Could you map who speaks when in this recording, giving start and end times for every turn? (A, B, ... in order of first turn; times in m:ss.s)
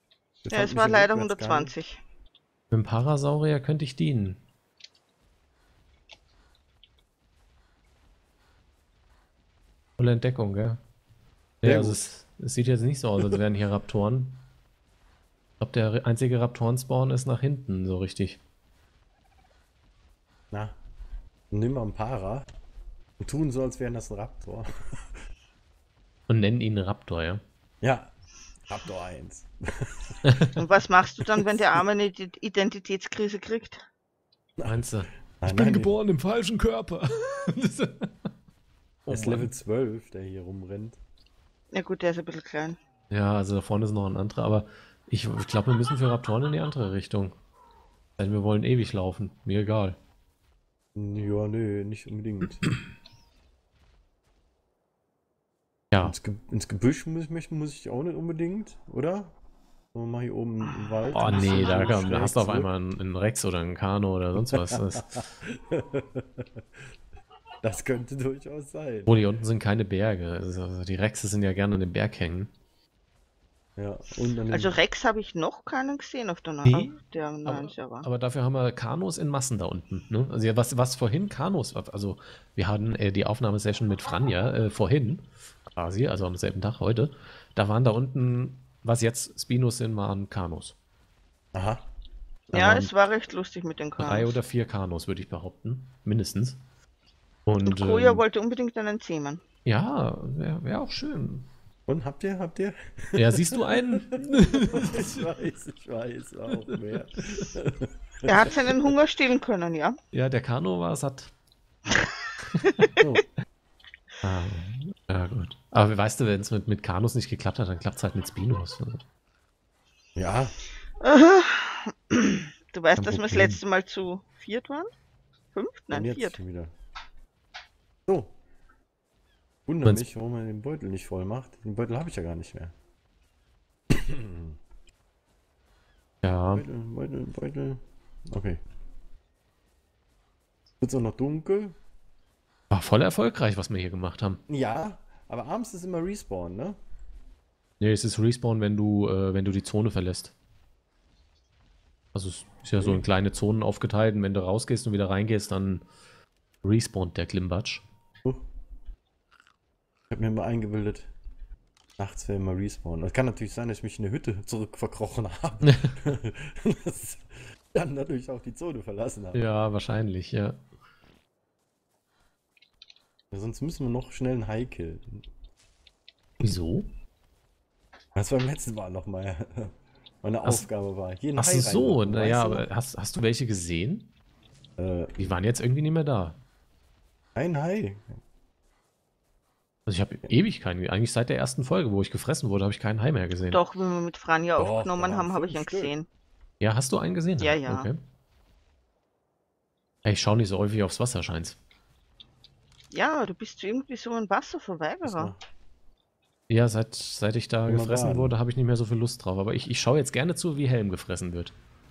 0:00.4-0:01.7 A
0:00.5-0:02.0 B
0:02.7-0:04.4 C
0:10.0-0:10.8 C
0:11.6-0:14.4 C
0:11.6-0:12.0 A
0:15.6-0:18.4 C
0:20.5-0:20.8 A
0:21.5-0:22.5 A
0:23.2-0:25.1 A
0:26.3-0:27.4 C
0:27.8-0:28.1 A
0:28.7-0:30.5 A
0:30.6-0:33.9 B
0:34.6-0:34.8 A
0:34.6-0:38.3 C
0:35.4-0:35.9 A
0:39.1-0:41.0 A
0:39.1-0:39.5 C
0:41.7-0:42.8 B
0:43.1-0:47.3 C
0:48.2-0:50.0 C
0:51.0-0:52.7 A
0:56.0-0:59.3 A
0:59.9-1:02.7 A
1:01.1-1:05.2 C
1:04.5-1:06.6 A
1:07.6-1:09.1 A
1:09.1-1:12.5 C
1:13.8-1:14.8 A
1:14.5-1:18.1 B
1:16.6-1:17.0 C
1:17.5-1:30.8 C
1:31.5-1:31.8 A
1:32.5-1:32.9 C
1:32.5-1:34.4 B
1:34.0-1:36.6 C
1:37.5-1:38.2 C
1:37.7-1:39.4 B
1:39.7-1:41.5 C
1:41.9-1:48.9 A
1:43.2-1:45.1 C
1:46.7-1:47.5 C
1:48.3-1:50.0 B
1:50.1-1:51.3 C
1:52.6-1:52.9 C
1:53.0-1:53.2 A
1:54.2-1:59.0 C
2:00.2-2:00.5 A
2:01.0-2:04.9 B
2:03.0-2:03.6 C
2:05.5-2:06.4 B
2:05.9-2:06.7 A
2:08.1-2:08.3 A
2:09.7-2:12.7 A
2:13.9-2:14.6 A
2:16.2-2:16.6 C
2:16.5-2:18.6 A
2:20.8-2:21.8 A
2:22.7-2:24.4 C
2:24.5-2:26.8 A
2:27.8-2:30.3 C
2:32.1-2:35.8 C
2:32.8-2:33.0 A
2:36.6-2:37.8 C
2:40.1-2:41.1 A
2:42.0-2:49.4 A
2:45.6-2:46.0 C
2:49.3-2:50.6 C
2:53.3-2:55.3 A
2:56.4-2:56.9 C
2:58.2-3:02.7 A
3:01.4-3:04.1 C
3:04.8-3:05.3 A
3:05.2-3:06.4 C
3:07.4-3:08.2 A
3:09.9-3:13.6 C
3:13.5-3:16.1 B
3:14.6-3:15.9 A
3:16.6-3:18.0 C
3:17.4-3:17.9 B
3:20.0-3:21.6 C
3:22.9-3:25.3 B
3:25.0-3:25.4 A
3:26.5-3:31.5 C
3:27.7-3:28.4 A